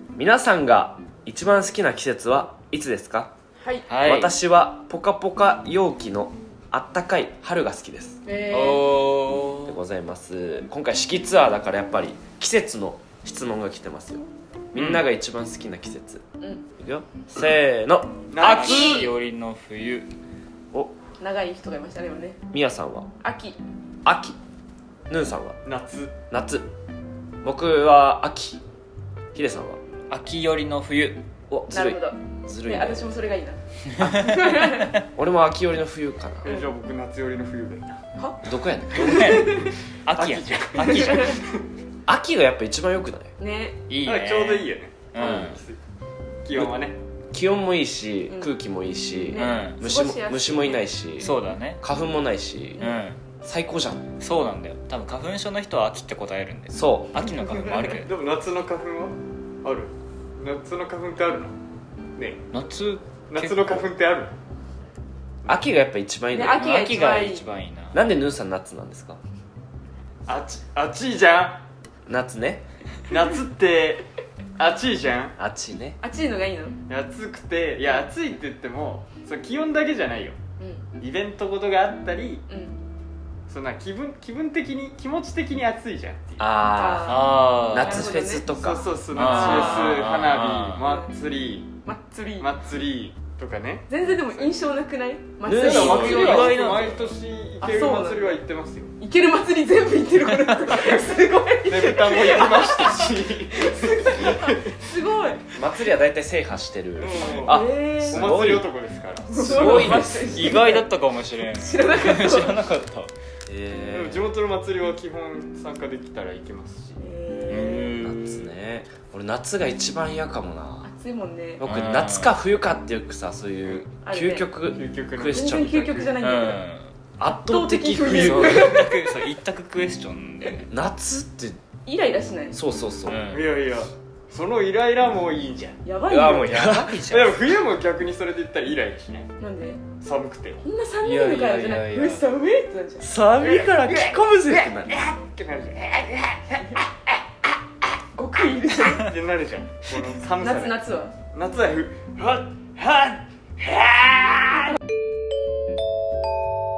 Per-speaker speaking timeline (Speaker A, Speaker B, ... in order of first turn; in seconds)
Speaker A: 0.1-3.3, 4.0-8.2, 9.7-16.2, 16.8-19.1, 22.5-23.1, 24.0-24.4, 25.1-25.6, 26.3-26.7, 27.4-28.6, 29.3-29.8, 31.5-33.1, 34.0-34.3, 35.1-36.5, 38.4-39.4, 42.1-43.3, 47.3-52.8, 53.4-54.0, 56.7-57.2, 65.4-66.7, 67.9-69.2, 72.1-72.6, 75.4-76.0, 87.7-88.9, 95.5-96.5, 105.5-108.7, 109.3-110.5, 113.5-114.3, 118.0-120.9, 121.6-126.1, 127.2-128.9, 130.7-131.6, 132.5-133.2, 136.1-137.0, 143.0-145.0
Speaker B: 3.6-3.9, 8.2-8.9, 18.5-19.1, 21.2-22.4, 23.2-23.6, 31.7-33.6, 34.1-34.9, 38.1-39.7, 41.0-41.3, 43.4-43.8, 49.3-50.9, 52.8-53.0, 66.3-67.5, 76.0-76.8, 80.6-80.9, 82.5-82.8, 86.7-88.5, 89.2-90.0, 90.8-91.1, 91.8-92.5, 93.9-96.5, 97.6-98.4, 99.0-105.5, 107.2-108.4, 109.3-110.8, 111.5-112.6, 117.0-118.0, 120.8-121.6, 124.0-124.5, 125.3-126.6, 127.4-128.9, 131.8-132.6, 135.8-136.9, 139.4-139.8, 140.6-143.1, 143.8-144.2, 148.1-149.1, 150.4-151.2
Speaker C: 3.9-4.3, 8.5-9.8, 14.7-15.0, 18.4-20.1, 30.1-31.2, 38.9-41.4, 43.9-45.6, 49.3-49.8, 51.2-51.8, 52.8-53.2, 54.2-58.1, 62.5-63.9, 66.5-68.0, 86.4-88.1, 89.1-90.8, 95.7-97.2, 109.5-113.1, 117.5-118.5, 121.6-122.3, 126.2-126.9, 128.1-130.7, 133.1-133.5, 136.5-137.4, 141.0-142.2
Speaker D: 18.3-18.8, 25.6-26.1, 36.4-38.0, 40.1-41.6, 44.0-45.8, 46.4-47.0, 57.8-61.5, 62.1-62.4, 63.3-64.4, 70.2-71.6, 73.1-75.3, 76.9-80.4, 81.0-82.4, 83.5-86.4, 88.5-91.8, 92.4-93.9, 95.6-98.9, 100.7-101.1, 101.6-104.8, 107.0-109.5, 113.9-117.0, 124.7-126.1, 133.3-135.8, 137.1-139.3, 140.0-140.6, 143.4-144.0, 144.8-146.7, 148.8-150.8, 151.3-154.7